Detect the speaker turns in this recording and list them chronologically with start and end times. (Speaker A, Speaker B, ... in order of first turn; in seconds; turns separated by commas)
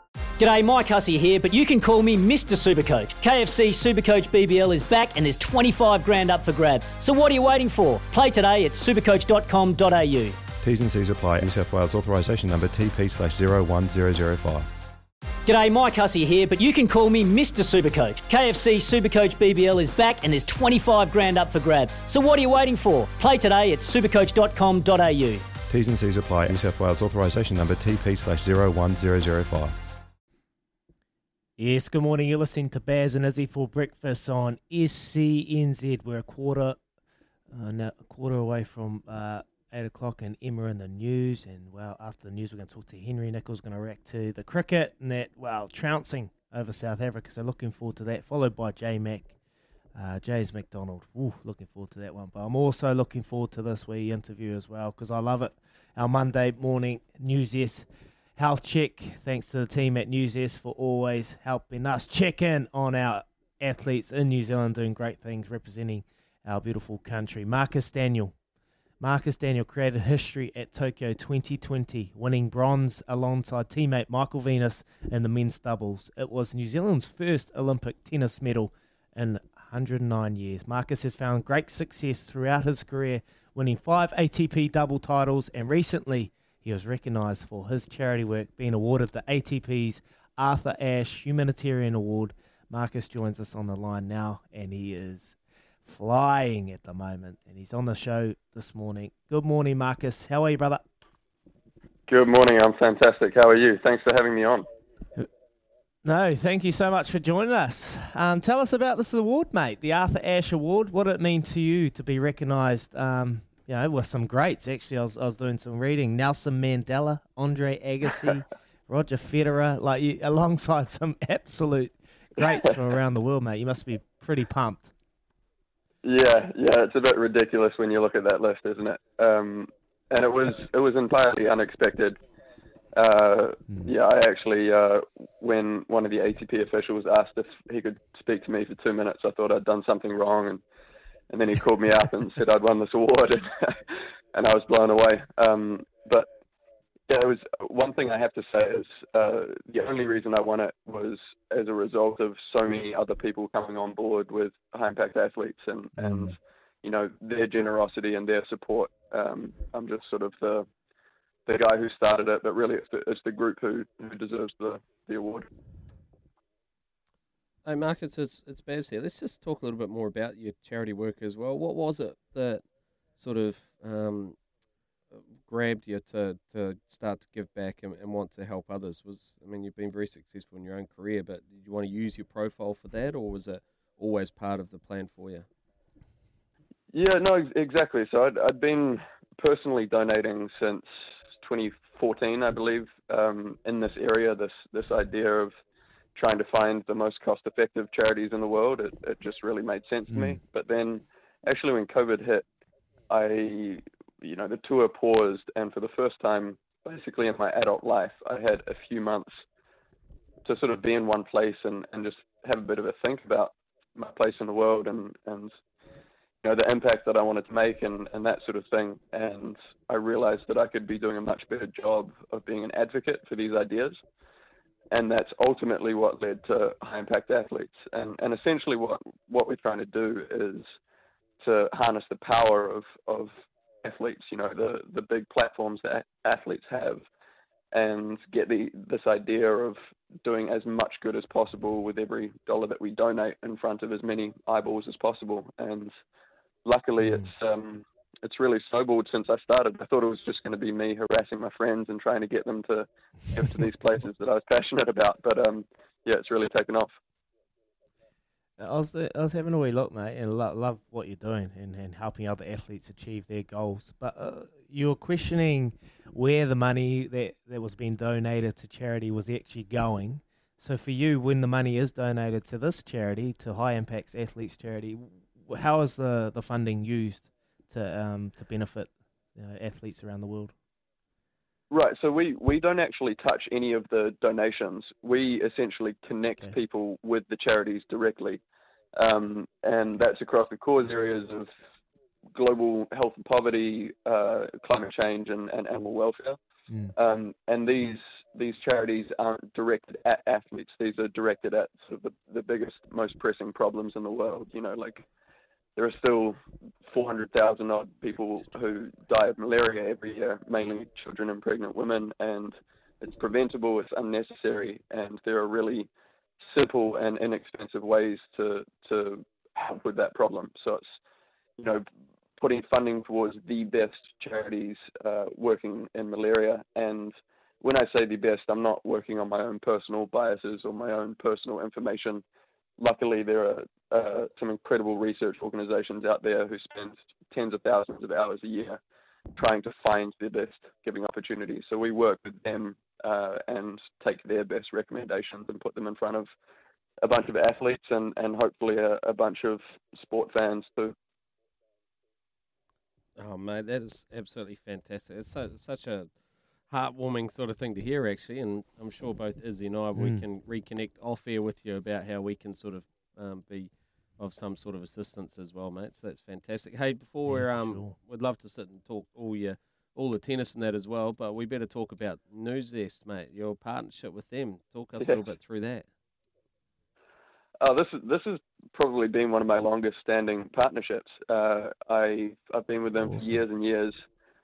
Speaker A: 0.4-10.4, Speaker B: 10.6-14.7, Speaker A: 15.4-25.4, Speaker B: 25.7-29.7, Speaker C: 31.6-36.8, Speaker C: 37.5-49.3, Speaker C: 49.9-68.3, Speaker C: 69.0-100.8, Speaker D: 102.1-104.7, Speaker C: 106.0-124.9, Speaker D: 126.0-132.2, Speaker D: 132.9-140.6, Speaker D: 141.3-146.3, Speaker D: 147.1-160.7, Speaker D: 161.4-165.5, Speaker E: 167.6-172.6, Speaker E: 173.2-174.4, Speaker E: 175.1-185.5, Speaker D: 186.9-195.6, Speaker D: 196.2-202.4, Speaker D: 203.1-209.4, Speaker D: 210.4-215.5, Speaker D: 216.4-224.0, Speaker D: 224.9-230.7, Speaker D: 231.4-237.1, Speaker D: 237.7-245.9, Speaker D: 246.6-257.0, Speaker C: 258.6-280.5, Speaker D: 281.7-288.4, Speaker D: 288.9-291.5, Speaker D: 292.3-296.4, Speaker D: 296.9-305.0, Speaker D: 305.8-315.9, Speaker D: 316.4-320.9, Speaker D: 321.6-321.9, Speaker D: 322.4-332.2, Speaker D: 332.8-338.8, Speaker D: 339.4-346.3, Speaker D: 347.0-350.9, Speaker E: 353.2-356.1, Speaker E: 356.7-375.9, Speaker C: 359.9-360.2, Speaker C: 367.2-367.9, Speaker D: 377.6-384.0, Speaker C: 383.1-383.4